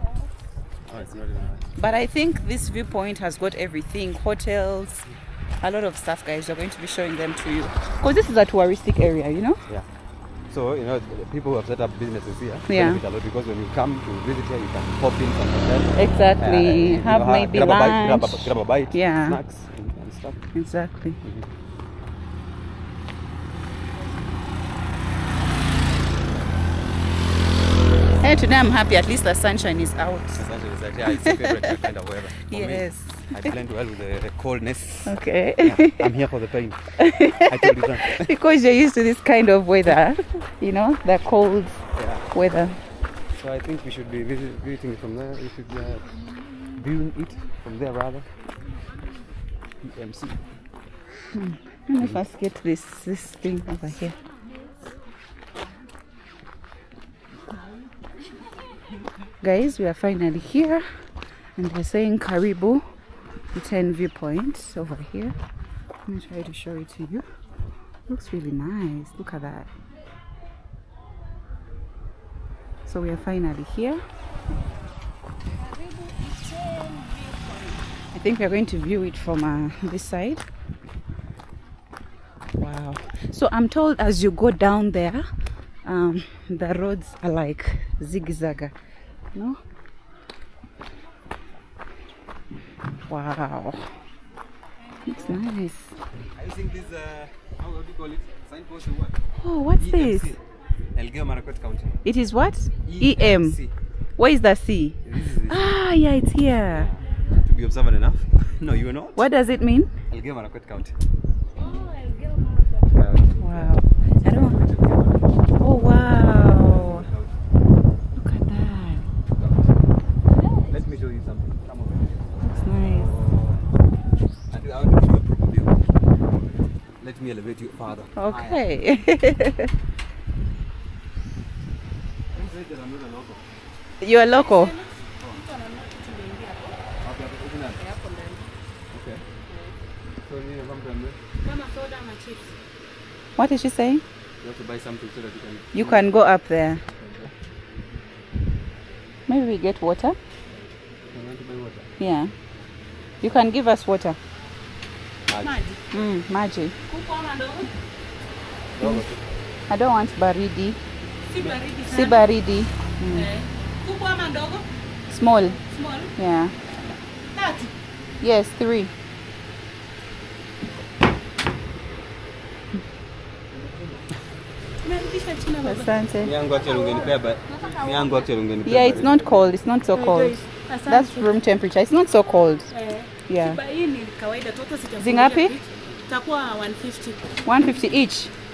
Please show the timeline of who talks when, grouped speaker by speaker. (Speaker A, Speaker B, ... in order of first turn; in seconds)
Speaker A: 0.9-2.0, 10.5-20.4, 30.3-36.8, 37.3-38.3, 41.9-42.2, 43.4-46.1, 46.7-48.2, 49.8-50.4, 95.1-95.4, 96.3-99.2, 99.8-100.4, 100.9-102.0, 102.8-103.7, 105.0-105.8, 106.7-109.3, 110.1-110.9, 112.9-117.3, 119.3-119.7, 120.7-123.6, 124.5-125.8, 126.3-128.6, 132.3-133.4, 137.0-137.8, 138.9-139.2, 140.2-141.2, 144.4-146.1, 146.9-147.3, 151.1-151.9, 155.3-155.6, 158.8-159.2, 176.2-179.3
Speaker B: 1.8-5.1, 5.6-9.6, 12.7-13.0, 15.9-19.4, 20.5-21.2, 28.2-30.4, 31.1-31.7, 32.5-33.3, 35.0-36.1, 37.0-42.8, 51.3-54.1, 59.4-60.8, 61.6-62.8, 63.5-65.3, 66.0-67.2, 68.1-69.7, 72.9-74.0, 78.2-80.4, 82.5-85.2, 85.8-88.7, 93.1-93.9, 95.1-95.9, 99.4-100.3, 102.0-103.6, 104.2-105.0, 105.5-106.9, 109.2-109.9, 113.4-114.6, 115.6-117.0, 118.2-119.1, 122.4-123.1, 128.2-129.7, 134.0-134.7, 143.4-144.0, 145.7-146.8, 149.3-150.2, 152.0-152.3, 153.2-154.2, 155.9-156.7, 159.7-160.8, 161.8-163.3, 165.1-165.6, 166.2-166.5, 168.2-168.9, 175.6-176.3, 178.7-182.7, 183.3-183.6, 185.0-185.5, 187.4-188.3
Speaker C: 75.6-77.8, 111.5-113.0, 120.4-120.8, 134.3-136.8, 137.8-138.5, 139.5-139.8, 141.4-142.5, 156.9-157.7, 161.3-161.9, 163.4-164.6, 165.7-166.0, 174.8-175.6, 176.6-178.2, 180.2-181.2, 182.7-187.2